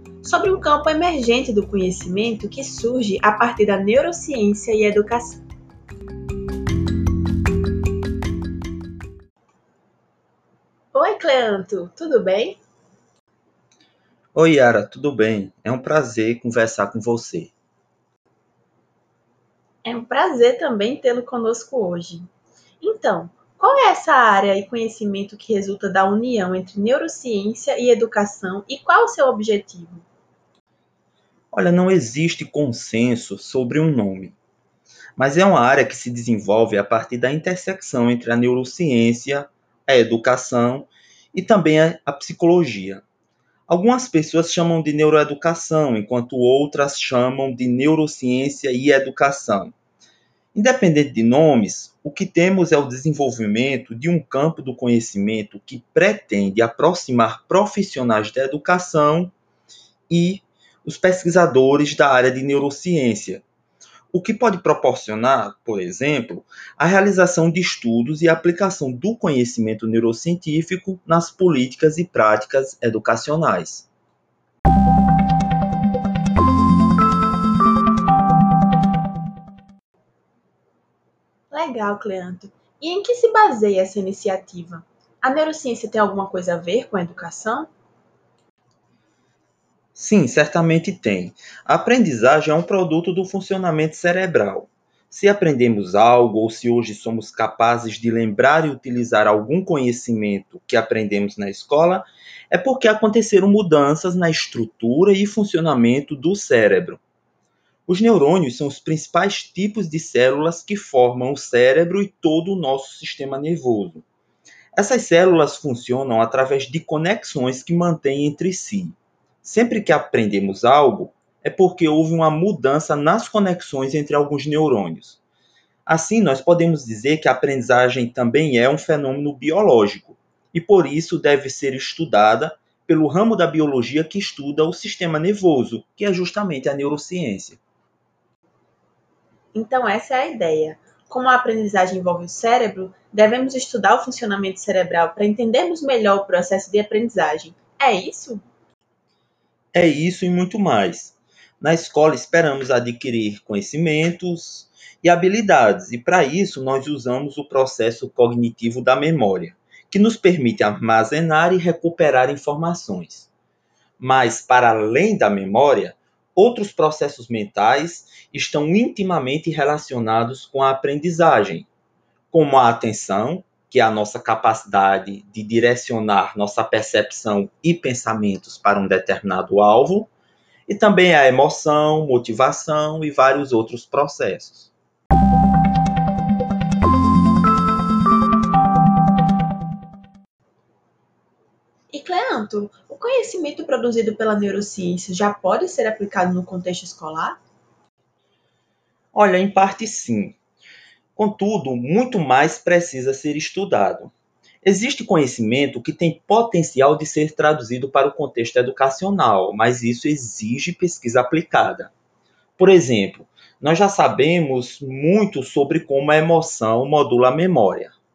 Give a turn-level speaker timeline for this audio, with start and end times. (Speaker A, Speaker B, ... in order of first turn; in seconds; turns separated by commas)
Speaker A: 0.2-5.4, Speaker A: 10.9-12.6, Speaker B: 14.3-17.5, Speaker A: 19.8-22.3, Speaker A: 22.8-30.1, Speaker B: 31.5-34.4, Speaker B: 35.2-43.0, Speaker B: 43.7-49.7, Speaker B: 50.5-59.3, Speaker B: 60.1-63.4, Speaker B: 64.1-73.9, Speaker A: 81.5-87.7, Speaker B: 90.0-107.0, Speaker B: 107.9-114.0, Speaker B: 114.8-125.2, Speaker B: 125.8-137.6, Speaker A: 139.5-148.4, Speaker B: 149.7-163.3, Speaker B: 164.0-171.7, Speaker B: 172.3-180.1, Speaker B: 180.7-184.7, Speaker A: 191.9-197.4, Speaker B: 199.1-200.4, Speaker B: 201.2-211.9, Speaker B: 212.6-217.9